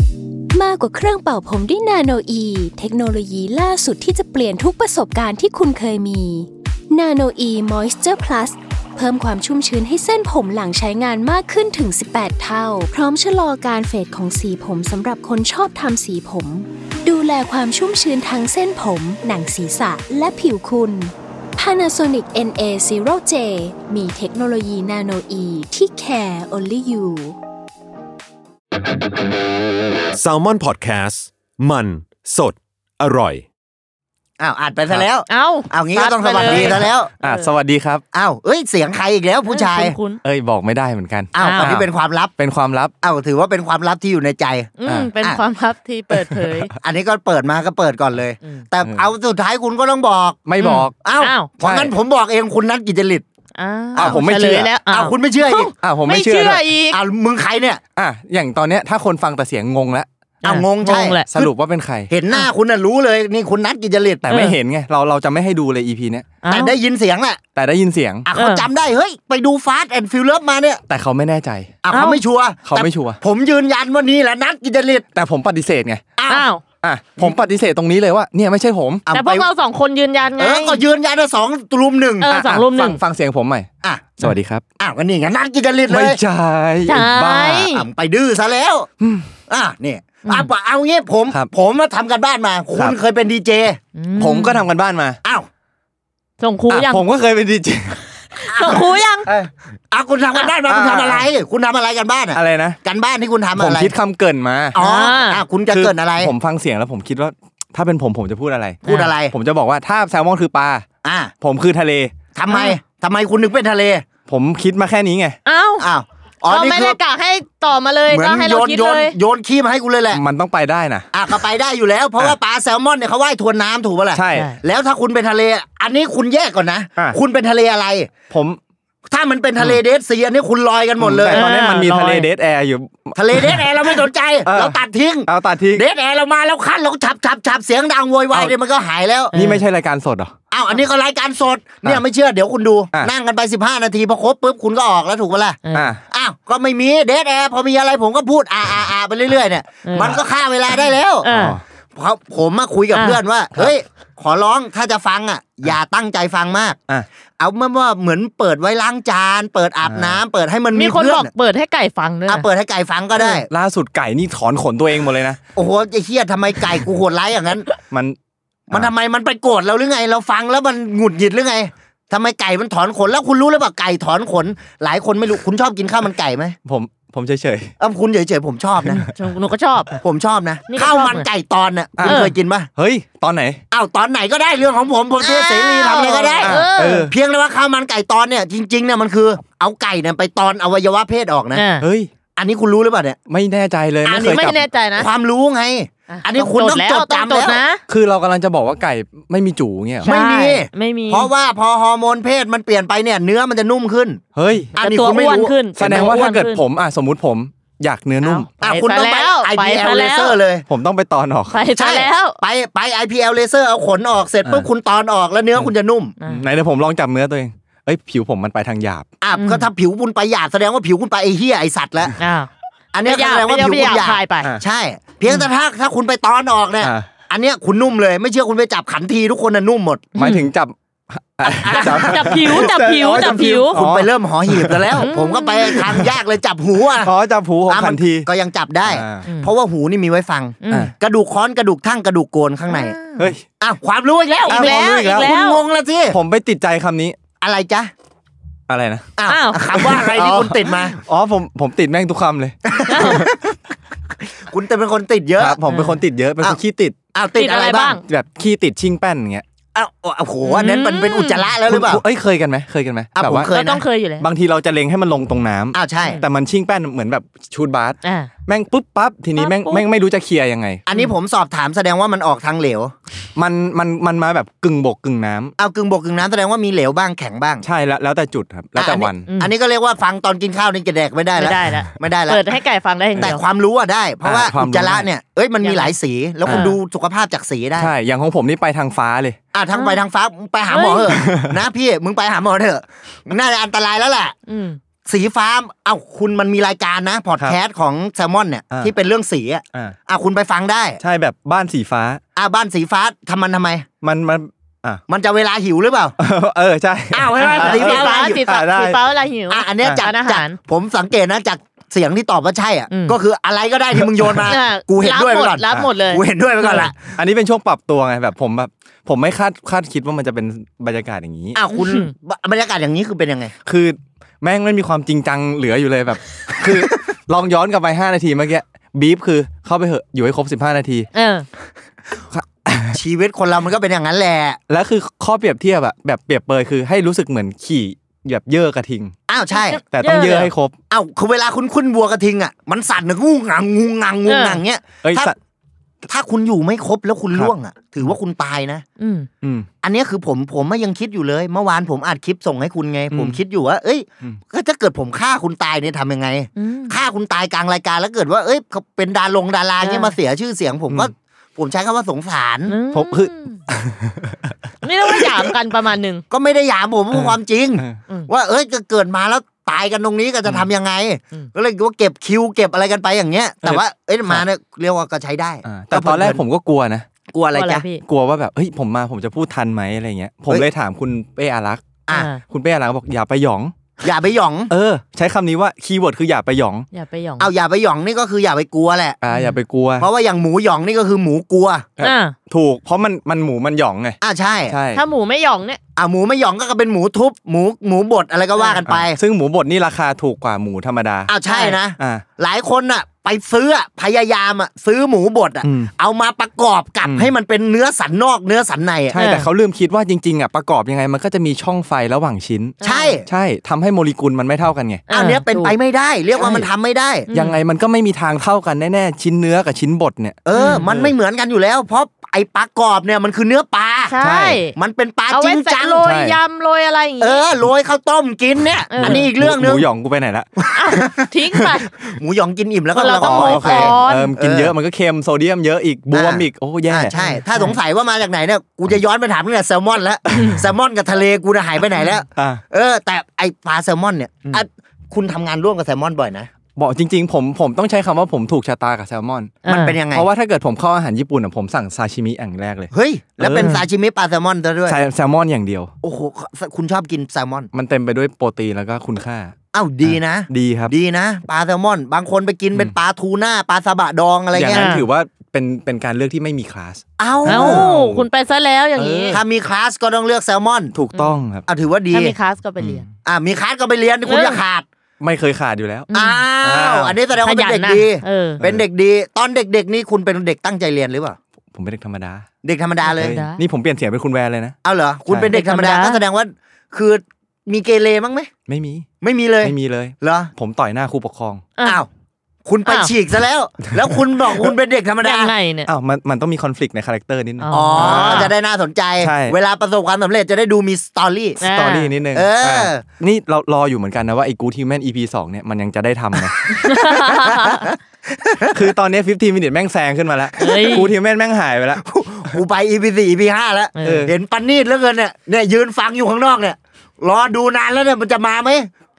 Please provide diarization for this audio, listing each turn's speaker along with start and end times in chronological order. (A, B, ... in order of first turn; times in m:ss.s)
0:00.5-0:27.4 A
0:30.1-0:33.5 B
0:34.4-0:37.1 C
0:35.3-0:37.6 D
0:36.5-0:38.0 E
0:38.1-0:40.0 C
0:39.5-0:40.2 D
0:40.2-0:42.9 E
0:41.3-0:42.3 C
0:41.4-0:41.8 D
0:43.0-0:45.4 C
0:44.8-0:46.7 D
0:44.9-0:45.1 E
0:46.1-0:46.6 E
0:46.8-0:50.4 C
0:50.5-0:50.9 E
0:50.6-0:51.5 D
0:51.0-0:53.2 C
0:51.6-0:51.9 E
0:53.6-0:57.0 D
0:54.0-0:54.2 C
0:54.0-0:54.7 E
0:54.8-0:55.7 C
0:55.8-0:56.7 E
0:56.9-0:57.8 C
0:58.0-1:00.1 E
1:00.4-1:01.2 C
1:00.4-1:01.5 D
1:01.3-1:02.1 E
1:02.1-1:04.3 C
1:04.2-1:06.3 E
1:04.3-1:04.6 D
1:06.4-1:06.7 D
1:06.5-1:07.4 C
1:07.6-1:08.3 E
1:08.3-1:10.8 C
1:08.3-1:08.7 D
1:10.9-1:11.8 E
1:11.8-1:15.0 C
1:11.9-1:12.2 D
1:12.6-1:13.2 E
1:15.1-1:16.0 E
1:16.2-1:16.5 C
1:16.3-1:16.6 D
1:16.8-1:19.1 E
1:19.1-1:19.5 C
1:19.1-1:20.8 D
1:20.4-1:22.3 C
1:22.2-1:23.0 D
1:22.3-1:23.7 E
1:23.8-1:24.1 C
1:24.2-1:24.6 E
1:24.8-1:26.2 C
1:25.9-1:27.7 E
1:26.9-1:27.9 D
1:27.6-1:28.9 C
1:29.0-1:29.3 E
1:29.5-1:33.8 C
1:30.2-1:30.5 D
1:34.0-1:34.7 D
1:34.2-1:35.2 E
1:36.4-1:37.0 D
1:36.7-1:38.0 E
1:38.4-1:39.3 D
1:38.5-1:43.9 C
1:40.7-1:41.3 E
1:42.3-1:42.8 E
1:43.6-1:44.8 E
1:44.7-1:46.3 C
1:44.8-1:45.5 D
1:45.7-1:50.9 E
1:48.8-1:49.2 D
1:48.9-1:49.4 C
1:51.0-1:51.3 C
1:51.4-1:52.1 E
1:52.4-1:54.0 C
1:52.5-1:52.8 D
1:54.3-1:55.4 E
1:55.5-1:55.9 D
1:55.8-1:57.0 C
1:56.5-1:59.2 D
1:58.1-2:00.2 C
2:00.1-2:01.1 E
2:01.1-2:08.1 C
2:04.1-2:04.6 E
2:04.3-2:04.6 D
2:08.3-2:08.6 E
2:09.1-2:11.5 C
2:11.0-2:15.9 E
2:11.3-2:12.3 D
2:13.2-2:19.3 C
2:19.3-2:19.6 D
2:19.3-2:20.3 E
2:20.5-2:31.3 C
2:25.6-2:25.9 D
2:25.7-2:26.0 E
2:29.8-2:30.2 D
2:31.2-2:31.6 D
2:31.3-2:31.6 E
2:31.9-2:36.8 C
2:32.9-2:33.2 D
2:37.4-2:41.3 C
2:39.8-2:40.2 E
2:40.7-2:42.5 D
2:42.3-2:43.5 C
2:43.2-2:45.4 E
2:45.6-2:47.7 C
2:47.9-2:48.2 E
2:48.7-2:56.6 C
2:56.6-2:57.7 E
2:57.8-2:59.0 C
2:58.9-3:00.0 D
3:00.0-3:02.7 C
3:00.7-3:01.3 D
3:02.0-3:03.6 E
3:02.0-3:02.3 D
3:03.7-3:11.7 C
3:05.2-3:07.1 D
3:06.4-3:07.1 E
3:11.5-3:11.9 D
3:11.8-3:12.1 E
3:12.4-3:13.2 C
3:13.3-3:14.6 E
3:14.0-3:17.6 C
3:14.2-3:15.1 D
3:16.1-3:17.8 D
3:17.9-3:20.1 E
3:20.0-3:21.3 D
3:20.0-3:24.2 C
3:24.4-3:24.8 E
3:24.8-3:26.0 C
3:24.8-3:26.6 D
3:25.8-3:28.5 E
3:28.2-3:30.7 C
3:28.5-3:30.4 D
3:30.7-3:31.6 E
3:31.5-3:32.4 D
3:31.8-3:36.2 C
3:36.2-3:36.5 D
3:36.3-3:39.1 E
3:39.2-3:42.1 C
3:39.4-3:39.7 D
3:42.2-3:42.5 D
3:42.9-3:50.1 C
3:43.0-3:44.5 D
3:46.8-3:47.1 E
3:50.2-3:50.5 D
3:50.2-3:55.1 E
3:51.4-3:57.1 C
3:51.7-3:53.8 D
3:55.0-3:55.8 D
3:55.7-3:56.2 E
3:57.0-3:58.3 E
3:57.7-4:03.0 C
3:58.8-3:59.3 E
3:59.2-3:59.5 D
4:00.6-4:00.9 D
4:02.7-4:03.3 D
4:03.2-4:03.4 E
4:03.6-4:06.2 C
4:04.4-4:05.6 D
4:04.5-4:05.3 E
4:06.1-4:07.2 E
4:07.4-4:07.9 C
4:08.7-4:09.2 E
4:09.2-4:11.0 C
4:09.3-4:09.7 D
4:09.7-4:13.3 E
4:12.7-4:13.6 C
4:12.9-4:13.2 D
4:14.2-4:15.6 C
4:15.4-4:17.0 E
4:15.7-4:16.0 D
4:17.1-4:18.0 C
4:17.4-4:18.0 D
4:18.0-4:19.4 E
4:19.7-4:22.0 C
4:20.4-4:21.5 D
4:21.6-4:23.5 E
4:23.2-4:23.8 C
4:23.5-4:24.3 D
4:24.2-4:30.8 E
4:25.7-4:26.2 C
4:26.0-4:26.3 D
4:28.0-4:28.3 D
4:29.4-4:29.8 D
4:30.9-4:32.9 C
4:33.4-4:35.6 E
4:35.6-4:37.6 C
4:37.6-4:39.3 E
4:38.8-4:42.4 C
4:39.3-4:39.5 D
4:41.4-4:43.4 D
4:43.2-4:47.9 C
4:44.2-4:45.1 E
4:45.6-4:45.9 D
4:46.5-4:46.7 E
4:46.5-4:46.8 D
4:47.8-4:49.4 E
4:49.5-4:54.4 C
4:49.7-4:50.0 D
4:50.7-4:51.2 D
4:51.1-4:51.6 E
4:54.5-4:54.8 D
4:55.1-5:01.0 C
5:01.0-5:02.2 E
5:02.4-5:03.9 C
5:04.0-5:05.0 E
5:05.1-5:06.2 C
5:06.2-5:09.0 E
5:07.1-5:08.4 C
5:07.4-5:10.6 D
5:09.5-5:17.1 C
5:09.8-5:10.1 E
5:12.9-5:13.2 D
5:14.5-5:16.9 D
5:17.0-5:21.6 E
5:21.6-5:23.5 C
5:21.7-5:22.1 D
5:23.6-5:31.1 E
5:31.2-5:31.5 D
5:32.3-5:33.0 E
5:32.9-5:34.6 C
5:34.7-5:39.2 E
5:39.3-5:39.8 C
5:39.5-5:40.5 D
5:39.9-5:40.8 E
5:40.9-5:45.3 C
5:44.3-5:44.6 D
5:45.0-5:45.4 E
5:46.1-5:48.8 C
5:49.0-5:49.3 D
5:49.4-5:49.7 E
5:49.8-6:02.8 C
5:53.1-5:53.4 E
5:56.6-5:57.0 D
5:59.8-6:00.2 D
6:02.7-6:03.6 D
6:02.9-6:04.5 E
6:04.8-6:06.2 D
6:06.3-6:16.4 C
6:07.1-6:08.0 E
6:13.6-6:14.4 E
6:15.6-6:17.1 E
6:17.3-6:17.9 C
6:17.5-6:18.0 D
6:18.0-6:23.8 E
6:22.1-6:22.4 D
6:24.0-6:24.7 C
6:24.7-6:26.9 E
6:26.9-6:27.5 D
6:27.4-6:29.2 C
6:29.2-6:30.1 E
6:29.3-6:29.6 D
6:30.0-6:31.9 C
6:32.0-6:35.0 E
6:32.0-6:32.4 D
6:34.2-6:34.8 C
6:34.9-6:35.8 D
6:36.0-6:39.2 C
6:38.6-6:38.8 D
6:38.9-6:41.4 E
6:41.3-6:49.2 C
6:41.4-6:41.8 D
6:42.0-6:42.2 E
6:45.6-6:45.9 E
6:47.0-6:47.3 E
6:49.1-6:55.0 E
6:49.2-6:49.5 D
6:52.8-6:53.2 D
6:52.8-6:53.3 C
6:55.1-6:55.7 D
6:55.1-6:57.3 C
6:57.3-6:57.6 D
6:57.3-7:01.1 E
7:00.4-7:04.1 C
7:00.6-7:00.9 D
7:04.1-7:04.8 D
7:04.2-7:04.6 E
7:04.8-7:06.1 C
7:05.3-7:07.4 D
7:06.0-7:06.4 E
7:07.2-7:09.9 C
7:08.9-7:09.3 D
7:09.0-7:11.8 E
7:10.6-7:11.3 C
7:10.8-7:11.9 D
7:12.0-7:14.7 C
7:13.0-7:14.3 D
7:13.1-7:17.2 E
7:16.1-7:26.5 C
7:17.2-7:17.8 D
7:20.3-7:20.6 E
7:22.4-7:22.6 E
7:26.8-7:29.6 E
7:29.6-7:30.0 D
7:29.7-7:30.3 C
7:30.1-7:33.9 E
7:32.9-7:35.0 C
7:34.9-7:35.9 E
7:36.0-7:37.7 C
7:37.7-7:40.9 E
7:39.7-7:45.0 C
7:44.5-7:48.3 E
7:44.7-7:45.0 D
7:47.2-7:47.8 C
7:47.5-7:49.4 D
7:49.0-7:49.4 E
7:49.3-7:50.9 C
7:50.9-7:51.7 E
7:51.1-7:51.4 D
7:51.7-7:52.4 C
7:52.1-7:53.0 D
7:52.8-7:53.1 E
7:53.2-7:54.9 C
7:54.3-7:54.6 D
7:55.2-7:56.1 E
7:56.1-7:56.4 D
7:56.1-8:01.4 C
7:56.6-7:57.3 E
7:57.4-7:58.6 D
7:58.6-7:58.9 E
8:01.7-8:02.4 E
8:02.6-8:03.4 C
8:03.0-8:03.6 D
8:03.1-8:04.8 E
8:04.8-8:08.5 C
8:05.3-8:05.5 E
8:05.5-8:06.2 D
8:08.7-8:09.1 E
8:09.2-8:10.5 C
8:09.6-8:11.6 E
8:11.8-8:12.0 D
8:12.6-8:15.5 C
8:12.9-8:13.1 D
8:15.2-8:15.9 D
8:15.8-8:18.5 E
8:17.6-8:18.5 D
8:17.7-8:21.6 C
8:19.2-8:19.6 E
8:21.6-8:22.1 D
8:21.6-8:26.9 E
8:22.3-8:23.0 C
8:26.8-8:27.8 D
8:27.0-8:28.8 C
8:28.7-8:32.6 E
8:30.6-8:31.1 D
8:30.7-8:31.0 C
8:32.0-8:38.9 C
8:34.0-8:34.3 D
8:34.0-8:34.3 E